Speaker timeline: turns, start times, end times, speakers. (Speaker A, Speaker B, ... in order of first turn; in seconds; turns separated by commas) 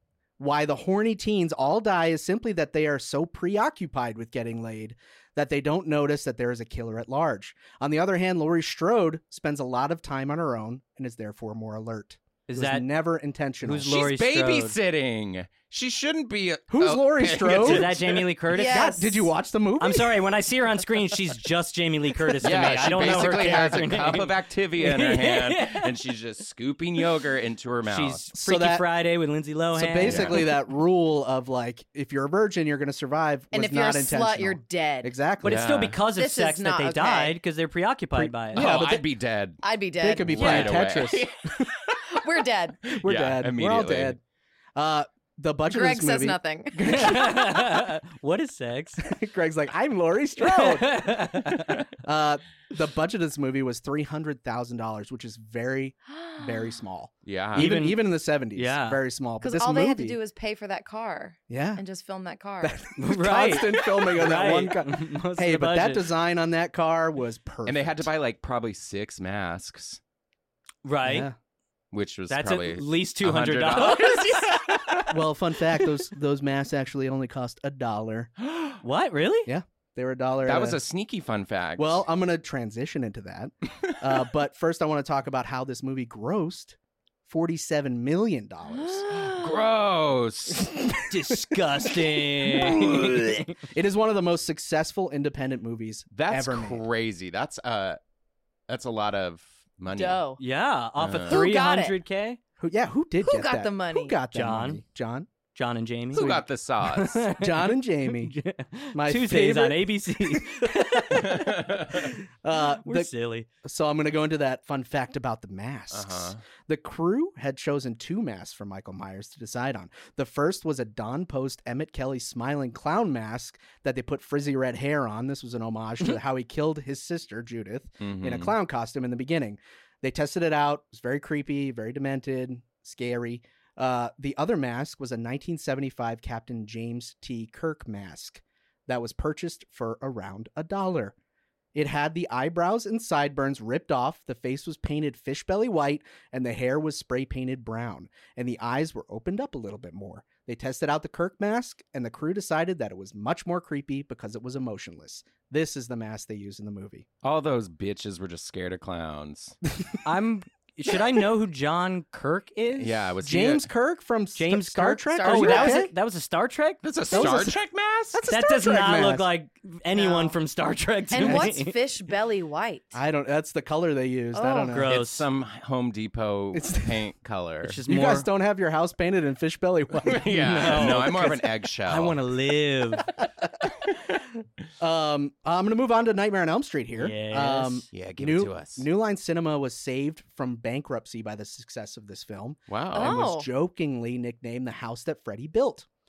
Speaker A: 0.4-14.0, Speaker B: 12.5-12.9, Speaker B: 13.6-14.8, Speaker C: 13.9-18.2, Speaker A: 16.7-18.0, Speaker B: 17.6-18.9, Speaker D: 18.5-19.3, Speaker A: 18.6-20.2, Speaker B: 19.8-25.9, Speaker C: 22.4-28.2, Speaker B: 27.8-30.5, Speaker A: 28.3-28.8, Speaker A: 29.7-35.7, Speaker C: 30.0-30.5, Speaker D: 33.5-35.1, Speaker B: 35.4-38.7, Speaker C: 35.4-36.0, Speaker D: 36.1-37.4, Speaker A: 38.1-39.1, Speaker C: 38.5-39.6, Speaker D: 39.6-40.7, Speaker A: 40.0-41.3, Speaker C: 40.2-42.2, Speaker D: 42.1-42.9, Speaker C: 42.9-44.2, Speaker A: 42.9-44.2, Speaker A: 44.7-47.9, Speaker D: 45.7-47.3, Speaker B: 46.9-49.0, Speaker A: 49.0-51.5, Speaker B: 50.4-51.9, Speaker A: 52.0-60.2, Speaker D: 56.1-56.7, Speaker C: 57.2-57.7, Speaker B: 57.5-59.0, Speaker D: 59.4-62.8, Speaker A: 61.5-61.8, Speaker A: 62.6-68.1, Speaker B: 63.0-66.0, Speaker C: 67.7-70.0, Speaker B: 70.8-71.3, Speaker A: 71.0-71.3, Speaker C: 71.9-75.2, Speaker B: 72.3-74.7, Speaker A: 75.1-78.3, Speaker C: 78.4-78.8, Speaker B: 78.8-79.5, Speaker A: 79.5-80.8, Speaker C: 80.4-82.0, Speaker A: 81.8-89.1, Speaker D: 88.8-89.5, Speaker C: 89.1-90.8, Speaker B: 91.1-93.6, Speaker A: 93.6-96.8, Speaker C: 96.1-98.0, Speaker C: 98.7-100.2, Speaker D: 99.9-100.4, Speaker B: 100.4-102.4, Speaker C: 101.0-101.4, Speaker D: 101.3-102.0, Speaker A: 102.6-105.3, Speaker D: 103.2-104.2, Speaker B: 104.3-104.8, Speaker B: 105.5-106.3, Speaker C: 106.1-107.2, Speaker A: 106.1-106.4, Speaker B: 106.8-113.5, Speaker A: 107.3-108.3, Speaker A: 108.9-110.7, Speaker C: 111.1-112.0, Speaker A: 112.4-113.1, Speaker A: 113.6-141.1, Speaker C: 115.9-116.4, Speaker C: 128.0-128.5, Speaker A: 141.7-157.1, Speaker C: 157.2-159.6, Speaker B: 160.0-163.0, Speaker C: 162.8-163.7, Speaker A: 163.2-165.9, Speaker B: 164.3-167.5, Speaker D: 165.1-165.8, Speaker C: 166.8-168.2, Speaker A: 167.1-167.6, Speaker A: 168.1-169.3, Speaker B: 168.3-171.8, Speaker D: 169.9-170.4, Speaker D: 171.1-172.9, Speaker A: 172.9-175.0, Speaker D: 174.3-174.8, Speaker B: 174.7-175.3, Speaker C: 174.9-177.8, Speaker A: 176.5-176.9, Speaker B: 177.6-178.3, Speaker A: 177.9-181.2, Speaker C: 180.0-182.2, Speaker B: 180.3-183.1, Speaker A: 184.8-195.9, Speaker B: 187.0-187.8, Speaker C: 187.9-188.8, Speaker C: 192.7-193.2, Speaker D: 192.9-193.5